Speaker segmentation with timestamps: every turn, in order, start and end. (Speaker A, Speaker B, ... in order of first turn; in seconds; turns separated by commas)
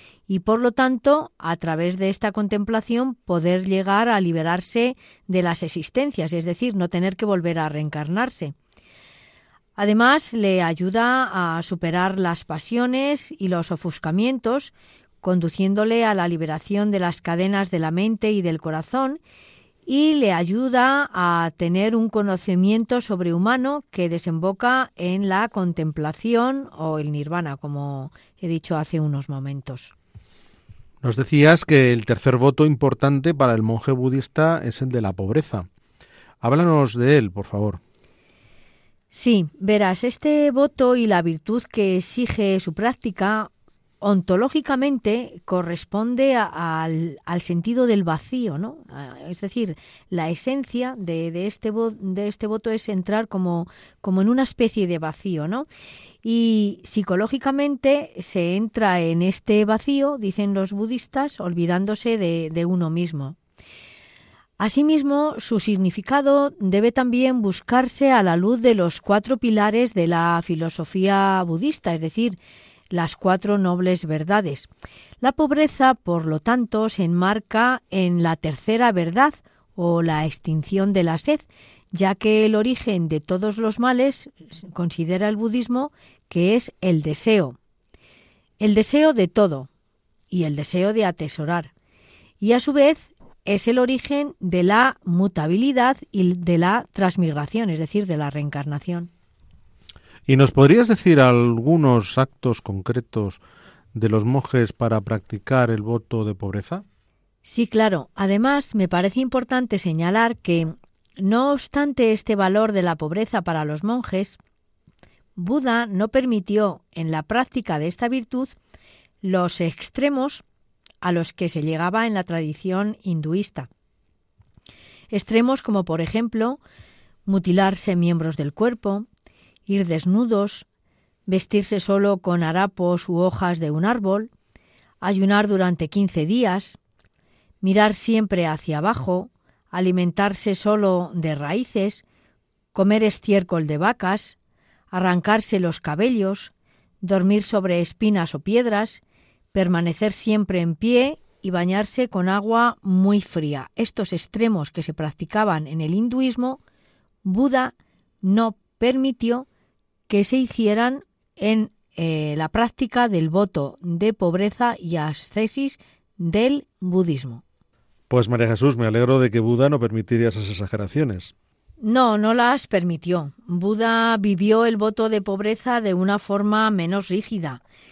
Speaker A: 0.3-8.5, Speaker A: 9.8-19.2, Speaker A: 19.9-29.9, Speaker B: 31.0-35.7, Speaker B: 36.4-37.8, Speaker A: 39.1-43.5, Speaker A: 44.0-55.6, Speaker A: 56.2-63.4, Speaker A: 64.6-72.4, Speaker A: 72.9-74.7, Speaker A: 75.2-87.5, Speaker A: 88.6-89.7, Speaker A: 90.3-91.7, Speaker A: 92.4-99.1, Speaker B: 100.2-103.4, Speaker B: 103.9-106.8, Speaker A: 107.4-114.4, Speaker A: 115.3-118.5, Speaker A: 119.2-120.4, Speaker A: 121.0-123.7, Speaker A: 125.1-126.6, Speaker A: 127.2-129.1, Speaker A: 129.7-130.7, Speaker A: 131.3-134.3, Speaker A: 135.0-136.8, Speaker A: 137.6-142.0, Speaker A: 142.7-144.4, Speaker A: 144.9-146.5, Speaker A: 147.0-149.0, Speaker A: 149.5-156.6, Speaker A: 157.2-159.4, Speaker A: 160.1-167.4, Speaker B: 168.1-171.3, Speaker A: 171.8-177.6